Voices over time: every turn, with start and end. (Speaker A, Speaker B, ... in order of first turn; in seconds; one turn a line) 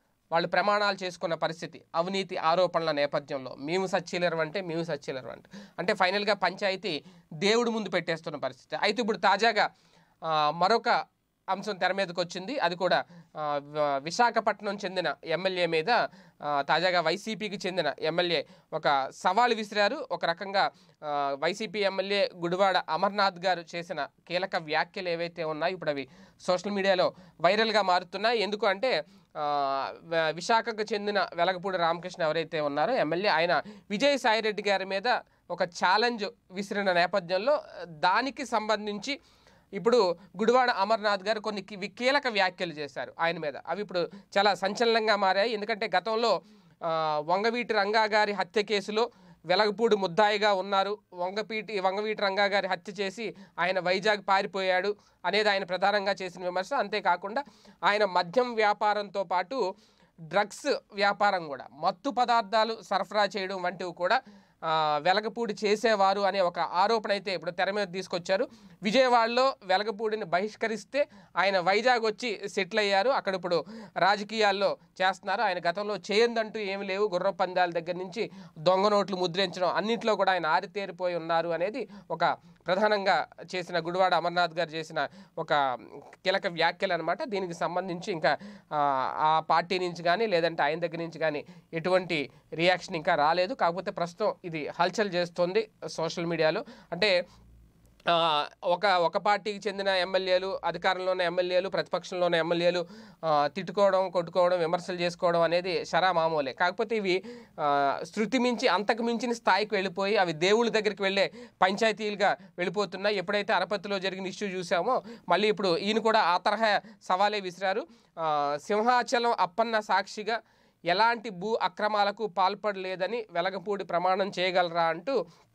Speaker A: 0.3-9.7
Speaker A: 10.6-10.9
Speaker A: 11.5-16.0
Speaker A: 16.5-39.1
Speaker A: 39.8-46.3
Speaker A: 46.9-59.6
Speaker A: 60.3-85.6
Speaker A: 86.2-97.1
Speaker A: 98.1-120.3
Speaker A: 120.9-125.2